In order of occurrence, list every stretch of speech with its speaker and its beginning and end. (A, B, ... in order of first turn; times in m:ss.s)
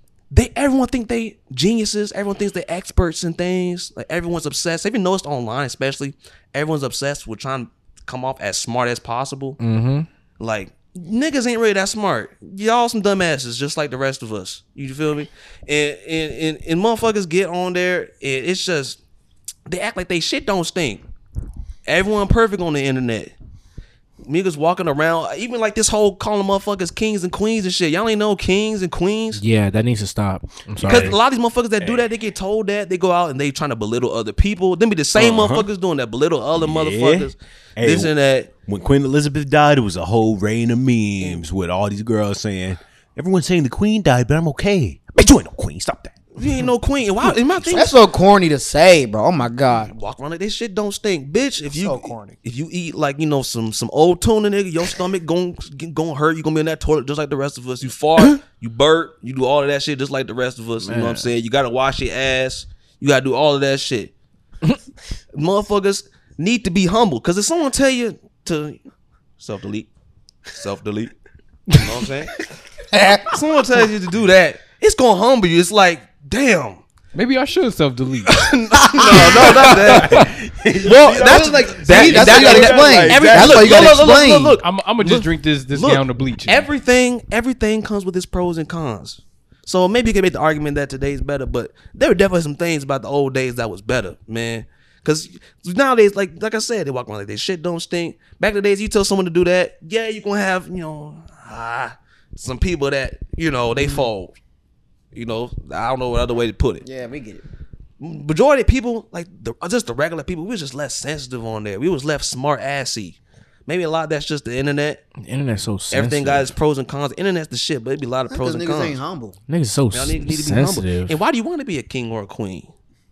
0:00.3-0:09.6 A
0:09.6-0:10.1 B
0:10.4-0:19.0 A
0:19.7-0:21.0 A
0:21.8-0:23.3 A
0:24.2-0:29.4 A
0:29.3-0:31.1 B
0:30.8-0:31.2 C
0:30.8-0:38.5 A
0:31.8-0:32.1 C
0:35.1-0:35.7 C
0:36.5-0:46.7 C
0:46.4-0:47.9 A
0:47.2-0:47.7 C
0:47.7-0:49.9 D
0:49.9-1:04.1 A
0:51.7-0:52.4 D
1:00.8-1:01.3 B
1:05.3-1:08.8 A
1:09.4-1:09.9 A
1:10.5-1:11.1 A
1:11.7-1:12.3 A
1:12.9-1:13.4 D
1:13.3-1:16.8 A
1:17.1-1:18.5 E
1:18.2-1:44.3 A
1:18.9-1:19.6 D
1:19.6-1:24.0 C
1:20.0-1:20.3 E
1:20.8-1:24.6 D
1:24.6-1:26.7 E
1:45.1-1:46.8 A
1:46.8-1:47.4 D
1:48.0-1:55.0 A
1:55.2-1:56.5 B
1:55.9-1:59.0 A
1:58.3-1:59.4 D
1:59.5-2:01.2 B
1:59.9-2:02.7 A